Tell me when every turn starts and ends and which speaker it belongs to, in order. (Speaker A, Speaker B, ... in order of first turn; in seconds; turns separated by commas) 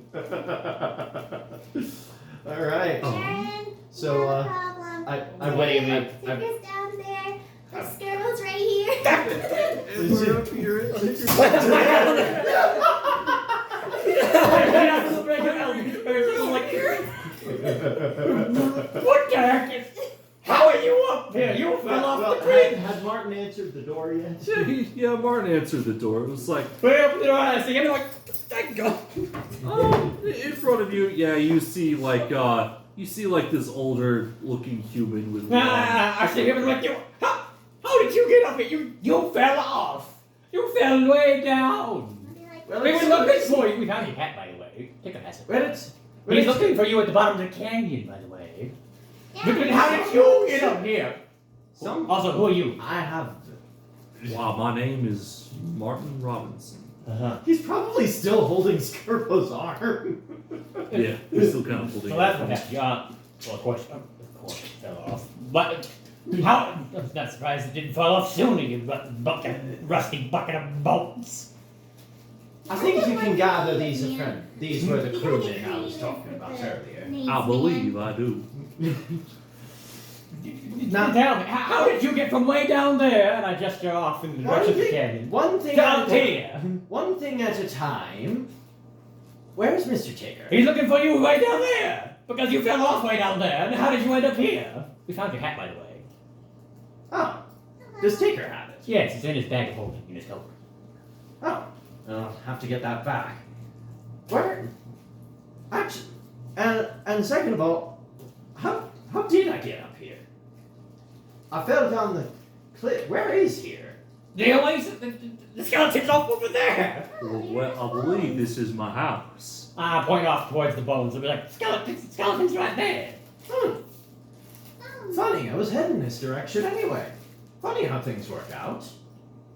Speaker A: 0.1-1.9, Speaker A: 2.4-3.2, Speaker B: 3.0-3.5, Speaker C: 3.0-10.0, Speaker A: 3.9-6.5, Speaker D: 5.4-5.7, Speaker D: 9.0-9.6, Speaker B: 9.1-12.5, Speaker A: 10.0-10.5, Speaker D: 11.3-13.2, Speaker A: 11.5-12.4, Speaker D: 13.8-22.8, Speaker B: 15.5-16.8, Speaker A: 21.8-24.7, Speaker B: 24.4-26.7, Speaker D: 26.8-29.4, Speaker B: 29.6-36.8, Speaker D: 35.5-45.8, Speaker C: 42.2-42.9, Speaker A: 42.7-43.7, Speaker A: 45.5-46.8, Speaker D: 46.3-48.7, Speaker C: 49.3-50.7, Speaker D: 49.4-51.2, Speaker A: 49.7-50.8, Speaker A: 51.7-53.6, Speaker D: 52.0-52.8, Speaker B: 54.2-56.8, Speaker D: 57.0-57.4, Speaker A: 57.4-61.5, Speaker B: 60.9-62.6, Speaker D: 62.0-71.5, Speaker C: 72.7-78.0, Speaker A: 72.7-77.1, Speaker B: 77.2-78.5, Speaker D: 80.3-86.6, Speaker A: 80.9-81.2, Speaker A: 84.4-88.5, Speaker A: 89.5-90.6, Speaker D: 90.5-96.0, Speaker A: 97.1-97.4, Speaker C: 97.8-98.4, Speaker A: 98.0-98.9, Speaker D: 98.8-100.5, Speaker A: 101.4-103.4, Speaker A: 104.3-104.7, Speaker A: 105.7-108.0, Speaker A: 108.5-110.2, Speaker A: 111.5-114.0, Speaker D: 114.3-117.1, Speaker C: 117.1-118.5, Speaker B: 117.2-119.7, Speaker D: 119.8-123.2, Speaker A: 123.5-123.8, Speaker C: 124.8-125.3, Speaker A: 125.1-128.9